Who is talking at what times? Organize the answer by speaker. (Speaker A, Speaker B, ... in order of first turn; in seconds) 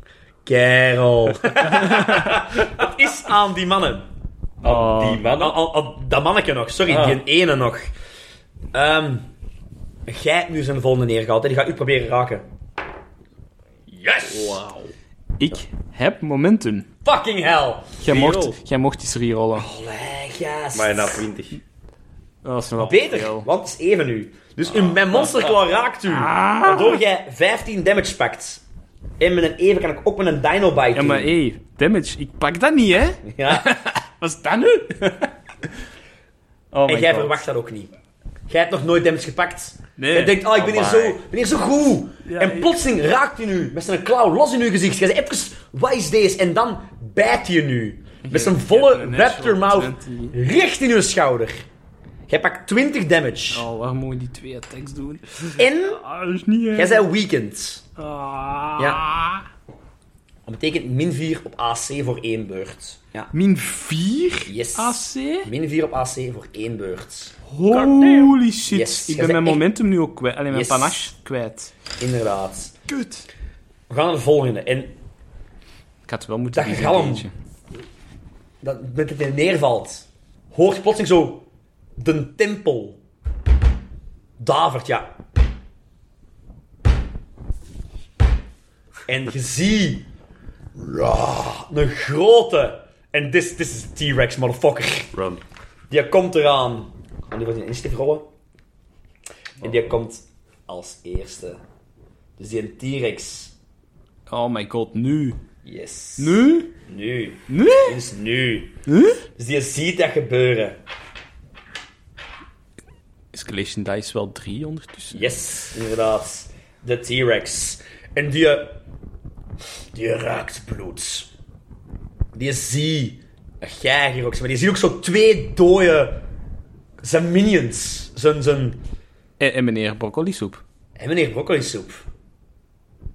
Speaker A: 0.4-4.1, 5.3-7.9, 8.7-9.3, 10.1-12.4, 13.9-14.6, 17.0-18.0, 19.6-21.2, 22.8-28.6, 29.2-31.3, 33.2-33.7, 36.9-37.9, 38.5-51.6, 52.3-53.6, 55.6-56.0, 56.7-57.8, 58.8-59.0, 60.4-63.3, 64.5-69.6, 70.5-71.1, 72.0-72.8, 73.9-75.0, 76.5-77.3, 78.6-83.0, 84.4-85.1, 89.1-90.1, 90.7-95.1, 95.9-98.3, 99.6-101.6, 102.4-103.5, 105.6-108.8, 109.3-110.8, 115.1-118.8, 119.9-121.3, 122.3-126.2, 127.0-128.8, 131.0-132.1
Speaker B: 1.8-2.3, 4.6-5.3, 15.4-16.9, 18.0-19.7, 22.4-23.5, 26.1-27.0, 30.9-35.7, 36.7-37.4, 40.0-40.7, 42.2-42.7, 48.2-50.4, 53.5-57.1, 58.0-59.4, 63.3-65.5, 67.5-71.7, 72.9-73.2, 76.0-77.3, 104.3-105.4, 106.2-106.7, 107.5-108.0, 108.8-109.2, 113.3-115.2, 129.4-130.6
Speaker C: 4.6-5.6, 6.8-7.2, 14.2-14.9, 18.0-18.6, 20.7-21.6, 24.7-25.6, 40.5-41.1, 95.1-95.4